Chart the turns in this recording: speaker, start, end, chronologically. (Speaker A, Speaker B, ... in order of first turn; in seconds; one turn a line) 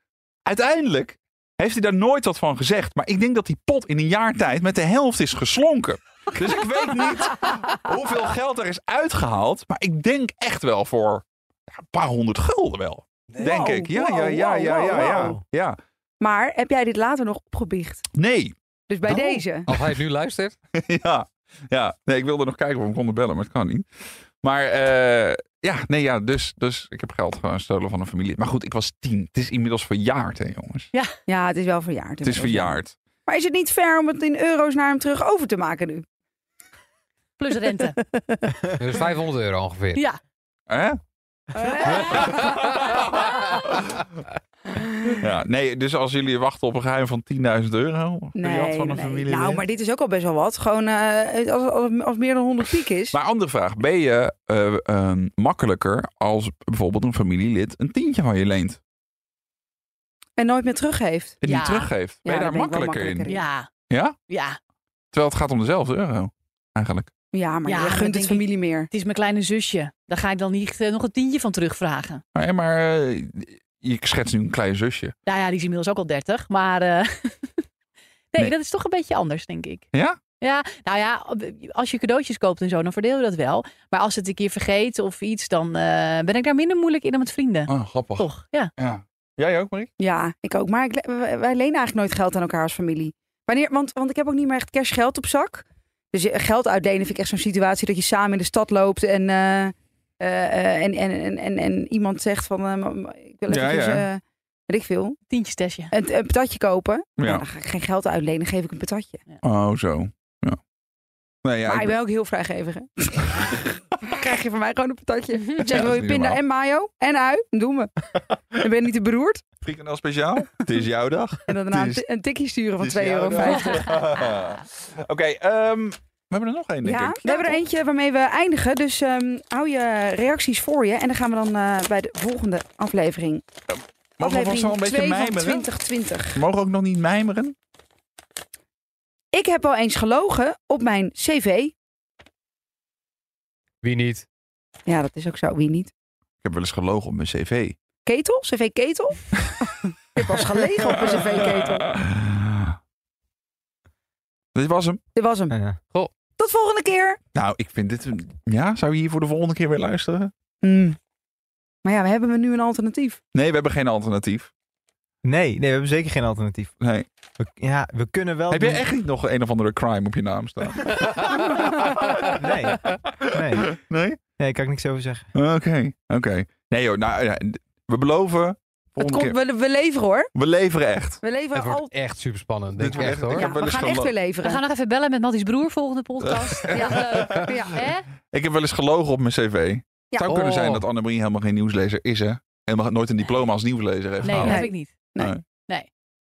Speaker A: 0.5-15.8
Speaker B: 13.4-15.3
Speaker C: 14.9-15.4
Speaker B: 16.2-18.0
Speaker A: 18.1-18.6
Speaker B: 18.9-19.7
Speaker D: 19.1-20.6
Speaker A: 20.8-23.9
Speaker A: 24.4-30.9
Speaker B: 31.3-36.0
Speaker A: 32.2-33.0
Speaker E: 37.4-38.0
Speaker B: 38.1-38.7
Speaker D: 38.7-40.0
Speaker A: 40.7-41.0
Speaker B: 41.5-43.4
Speaker A: 42.0-44.1
Speaker B: 44.7-45.2
Speaker A: 45.1-49.6
Speaker B: 48.4-53.2
Speaker A: 53.1-58.8
Speaker B: 60.4-61.4
Speaker A: 61.4-63.3
Speaker E: 61.4-61.9
Speaker B: 62.2-63.5
Speaker E: 63.3-63.7
Speaker A: 63.9-64.2
Speaker E: 64.3-64.6
Speaker A: 65.1-67.1
Speaker B: 67.3-68.9
Speaker E: 67.7-72.2
Speaker A: 72.3-75.1
Speaker E: 75.3-77.6
Speaker E: 78.3-79.8
Speaker A: 79.9-80.2
Speaker E: 80.4-88.7
Speaker A: 87.7-89.9
Speaker B: 90.0-105.2
Speaker A: 103.5-104.1
Speaker E: 105.3-105.9
Speaker B: 105.9-109.2
Speaker A: 107.2-107.5
Speaker A: 109.4-110.6
Speaker A: 111.4-112.0
Speaker B: 111.7-117.9
Speaker A: 115.6-116.4
Speaker B: 118.5-119.4
Speaker A: 119.6-122.0
Speaker B: 121.5-124.0
Speaker A: 122.8-127.6
Speaker E: 123.4-124.0
Speaker B: 126.8-133.4
Speaker A: 133.7-135.7
Speaker B: 134.2-136.4
Speaker A: 136.3-137.6
Speaker B: 139.3-141.7
Speaker D: 143.8-144.2
Speaker B: 144.9-145.9
Speaker A: 146.4-147.8
Speaker B: 148.1-151.9
Speaker A: 150.9-152.8
Speaker A: 154.6-155.0
Speaker B: 155.2-155.5
Speaker C: 155.5-155.8
Speaker B: 156.4-157.2
Speaker A: 157.3-160.3
Speaker B: 160.6-161.0
Speaker B: 161.8-163.2
Speaker A: 163.3-164.5
Speaker C: 165.2-166.7
Speaker A: 166.8-167.1
Speaker C: 167.4-168.8
Speaker A: 168.5-174.2
Speaker C: 172.3-173.8
Speaker C: 174.4-175.3
Speaker A: 175.3-179.4
Speaker B: 179.0-180.3
Speaker A: 180.3-181.2
Speaker B: 181.2-181.9
Speaker D: 181.5-183.5
Speaker A: 182.8-184.1
Speaker B: 183.3-184.6
Speaker E: 184.4-186.7
Speaker A: 186.2-187.6
Speaker B: 186.7-187.8
Speaker E: 187.8-188.1
Speaker A: 188.3-194.6
Speaker B: 190.1-190.4
Speaker D: 190.3-190.8
Speaker E: 194.2-194.9
Speaker B: 194.4-195.3